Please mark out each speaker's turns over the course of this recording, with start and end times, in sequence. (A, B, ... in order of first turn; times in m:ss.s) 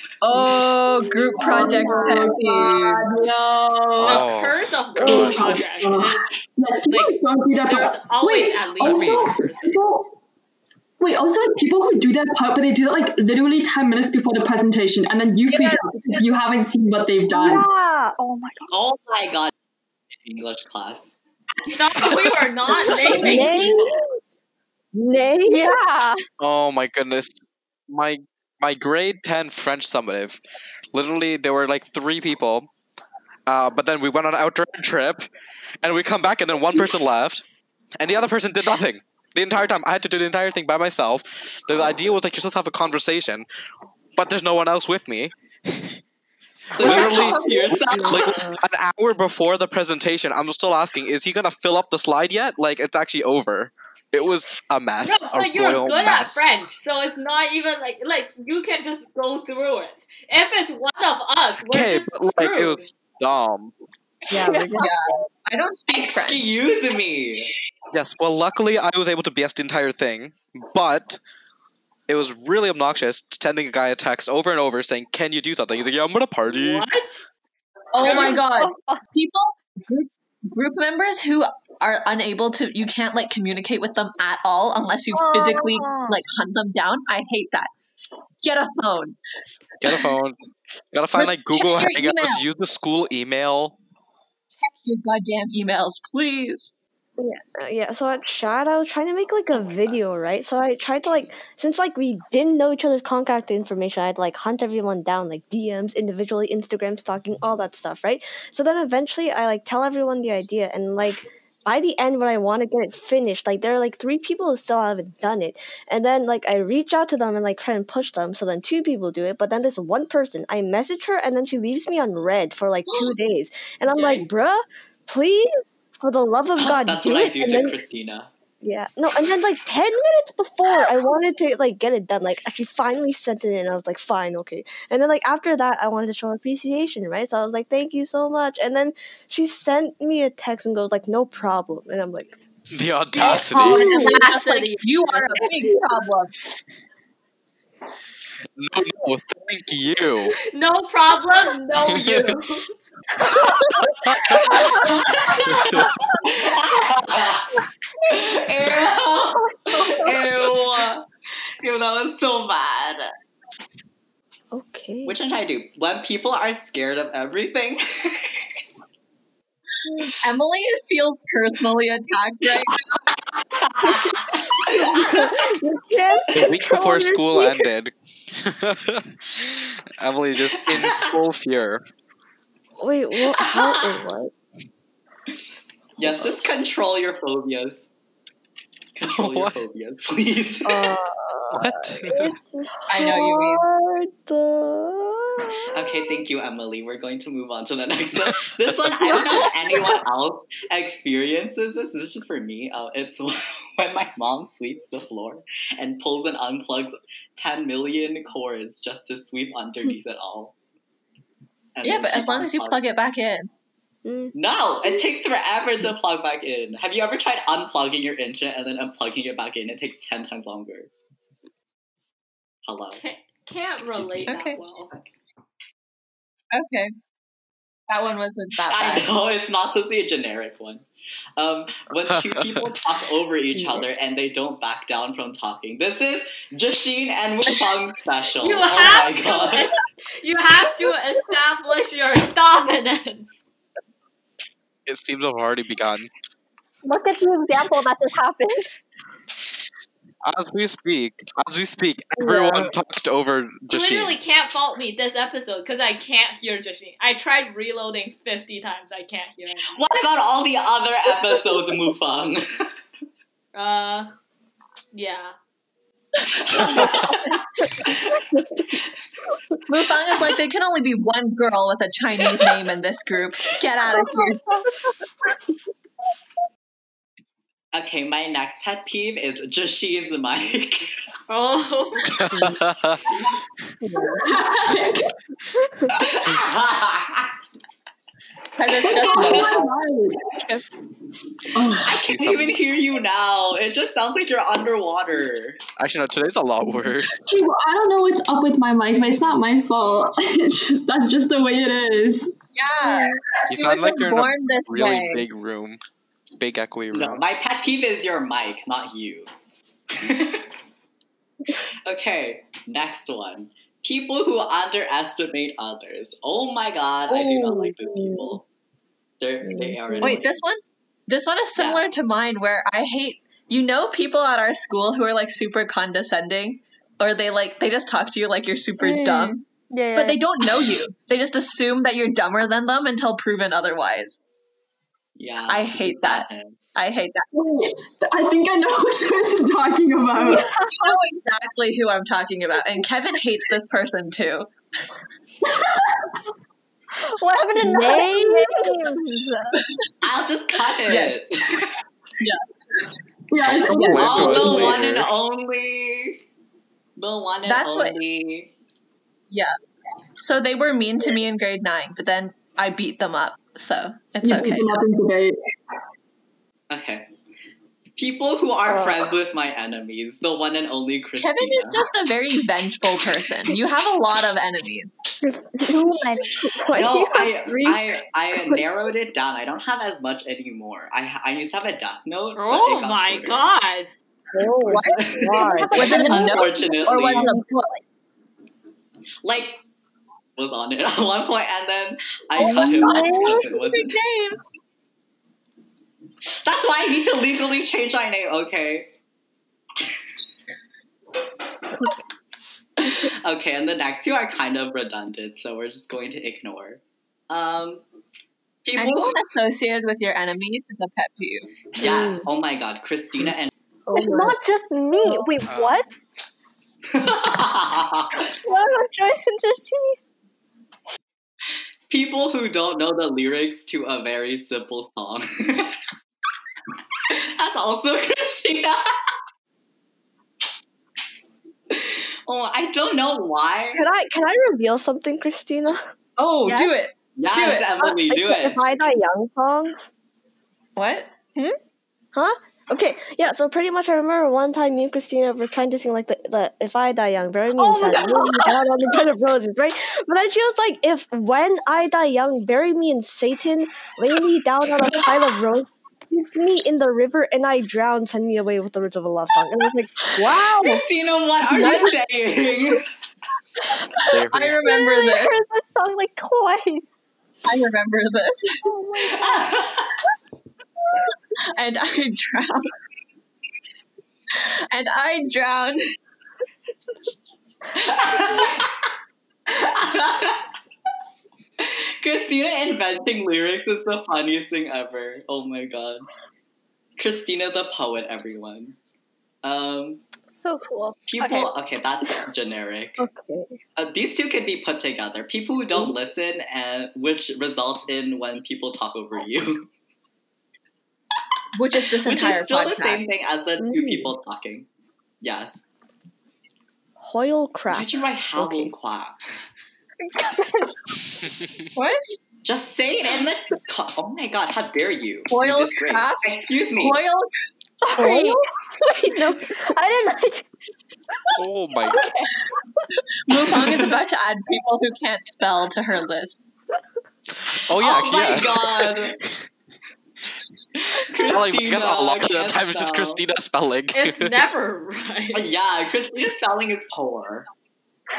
0:00.2-0:03.0 A
0:01.2-0:02.4 B
0:01.3-0:04.3 C
0:04.0-0:04.6 D
0:04.0-0:06.3 E
0:05.0-0:10.1 C
0:05.0-0:05.5 F
0:05.1-0:05.4 D
0:06.9-0:09.8 E
0:08.8-0:09.2 D
0:11.0-0:17.6 C
0:15.5-0:16.2 A
0:17.3-0:18.7 B
0:18.7-0:19.5 G
0:20.2-0:21.1 G
0:21.7-0:24.0 E
0:23.1-0:24.0 F
0:23.2-0:23.6 B
0:24.9-0:25.8 F
0:25.4-0:26.2 B
0:26.4-0:30.4 D
0:30.9-0:32.7 D
0:33.5-0:35.3 D
0:35.8-0:37.4 D
0:38.0-0:43.4 D
0:44.2-0:46.0 D
0:46.7-0:48.4 G
0:46.8-0:56.5 D
0:46.8-0:48.1 A
0:47.9-0:48.6 F
0:55.0-1:02.9 E
1:01.7-1:03.7 D
1:04.3-1:04.9 F
1:04.4-1:06.6 A
1:05.9-1:07.5 G
1:07.9-1:11.2 D
1:12.1-1:16.8 D
1:16.5-1:17.2 E
1:17.9-1:27.7 A
1:18.0-1:19.0 B
1:18.0-1:18.4 E
1:25.1-1:26.2 B
1:28.4-1:29.2 A
1:29.8-1:30.4 D
1:30.9-1:33.8 D
1:31.1-1:32.4 A
1:34.6-1:36.7 A
1:37.2-2:07.8 F
2:03.9-2:04.2 E
2:06.6-2:08.3 G
2:08.6-2:22.4 F
2:22.7-2:23.9 D
2:23.1-2:25.4 E
2:23.2-2:26.3 A
2:23.6-2:24.0 F
2:28.6-2:30.4 D
2:30.5-2:32.7 E
2:31.8-2:32.3 D
2:34.0-2:34.5 D
2:34.5-2:34.8 F
2:34.8-2:35.4 G
2:35.4-2:35.9 D
2:36.2-2:37.5 G
2:38.1-2:41.0 G
2:41.6-2:43.1 G
2:44.5-2:45.2 F
2:45.0-2:48.4 G
2:50.2-2:52.8 A
2:53.5-2:55.3 G
2:53.8-2:54.1 F
2:54.6-2:57.7 F
2:56.3-3:01.8 D
3:00.6-3:01.1 G
3:02.8-3:04.3 F
3:03.3-3:03.9 G
3:06.0-3:07.8 G
3:06.0-3:06.3 F
3:09.0-3:10.9 G
3:09.0-3:09.6 D
3:10.6-3:16.2 F
3:11.5-3:12.3 D
3:12.9-3:13.6 A
3:15.7-3:30.5 G
3:31.8-3:32.8 G
3:31.8-3:33.5 A
3:34.0-3:34.3 F
3:34.3-3:40.9 G
3:42.6-3:43.0 G
3:42.9-3:44.9 E
3:43.9-3:44.2 G
3:44.2-3:44.6 A
3:46.5-3:46.9 A
3:47.9-3:49.1 A
3:48.7-3:50.8 G
3:51.4-3:59.7 G
3:52.0-3:52.8 D
3:53.6-3:53.8 F
3:58.4-4:03.4 E
4:04.9-4:06.1 D
4:06.8-4:08.7 B
4:10.2-4:14.1 D
4:12.2-4:12.7 F
4:13.7-4:19.7 E
4:19.7-4:22.7 G
4:23.5-4:24.1 E
4:24.9-4:25.3 E
4:26.4-4:27.2 G
4:26.6-4:26.9 D
4:27.9-4:28.2 G
4:28.3-4:28.6 F
4:29.7-4:34.4 A
4:37.7-4:40.9 G
4:41.3-4:42.1 E
4:42.1-4:43.0 D
4:43.8-4:44.4 F
4:44.2-4:45.1 C
4:45.9-4:47.3 G
4:48.6-4:49.7 A
4:48.7-4:49.5 G
4:48.9-4:50.3 C
4:51.5-4:52.0 C
4:51.8-4:55.6 G
4:51.9-4:52.6 D
4:55.8-4:57.2 D
4:57.2-5:02.3 C
5:02.5-5:05.2 A
5:03.5-5:05.8 D
5:06.4-5:07.2 D
5:06.9-5:09.3 G
5:09.9-5:10.5 G
5:11.8-5:18.4 G
5:17.1-5:18.4 F
5:19.2-5:20.4 G
5:19.4-5:20.2 F
5:20.0-5:34.2 A
5:21.6-5:21.8 G
5:28.8-5:30.2 B
5:35.2-5:36.8 G
5:35.5-5:37.2 A
5:37.3-5:40.5 C
5:40.2-5:41.0 B
5:40.2-5:44.5 A
5:45.4-5:46.0 C
5:47.0-5:49.6 B
5:47.6-5:49.0 F
5:50.0-5:51.7 G
5:50.9-5:51.1 C
5:53.3-5:54.7 C
5:53.4-5:55.2 D
5:53.9-5:56.2 G
5:57.0-5:58.5 G
5:57.4-5:58.0 A
6:00.2-6:04.8 A
6:04.2-6:05.4 C
6:06.7-6:07.1 G
6:08.0-6:11.9 G
6:08.7-6:09.1 F
6:11.2-6:15.0 A
6:15.2-6:18.6 F
6:15.6-6:17.3 B
6:16.7-6:23.5 G
6:22.3-6:23.9 E
6:24.3-6:27.8 B
6:24.6-6:25.2 G
6:25.1-6:26.2 F
6:25.7-6:27.4 A
6:25.8-6:27.3 G
6:29.2-6:29.6 G
6:30.4-6:34.0 G
6:32.4-6:34.6 A
6:32.4-6:33.4 B
6:32.8-6:33.3 F
6:36.4-6:38.9 G
6:42.8-6:47.8 G
6:48.6-6:49.2 G
6:48.8-6:51.5 A
6:51.7-6:53.5 G
6:51.8-6:52.3 F
6:53.9-6:54.3 F
6:53.9-6:56.1 B
6:55.0-6:55.2 F
6:55.4-6:55.8 D
6:56.9-6:58.1 G
6:58.1-7:00.0 B
7:01.9-7:05.8 G
7:07.1-7:09.1 G
7:11.7-7:13.8 G
7:13.7-7:15.9 F
7:16.2-7:18.0 A
7:16.4-7:16.7 B
7:17.2-7:18.6 G
7:18.1-7:19.8 F
7:20.8-7:21.4 A
7:22.1-7:40.6 F
7:27.7-7:28.4 A
7:40.4-7:40.8 B
7:40.5-7:42.8 G
7:41.5-7:41.9 B
7:44.1-7:44.6 D
7:44.3-7:45.4 A
7:44.6-7:47.0 B
7:47.4-7:48.6 A
7:48.6-7:49.5 B
7:49.1-7:49.9 G
7:51.5-7:52.7 A
7:54.3-7:55.9 A
7:57.8-7:58.7 G
7:59.5-8:00.5 G
8:01.6-8:06.1 G
8:07.0-8:08.8 G
8:09.4-8:10.0 G
8:10.4-8:11.5 B
8:11.0-8:13.0 G
8:13.0-8:13.6 F
8:13.8-8:19.7 G
8:21.5-8:23.0 A
8:21.9-8:24.7 G
8:23.6-8:24.2 F
8:25.2-8:25.6 G
8:27.0-8:28.7 F
8:27.7-8:29.2 G
8:30.0-8:30.7 B
8:31.2-8:31.5 D
8:31.7-8:32.2 A
8:32.4-8:37.0 G
8:35.3-8:37.3 A
8:37.8-8:38.4 B
8:38.0-8:39.4 F
8:39.0-8:40.4 B
8:41.4-8:42.0 D
8:41.8-8:42.3 B
8:43.3-8:46.4 A
8:47.3-8:49.4 D
8:47.8-8:49.2 G
8:50.8-8:53.2 G
8:51.1-8:54.3 D
8:53.9-8:55.5 E
8:55.3-8:57.5 G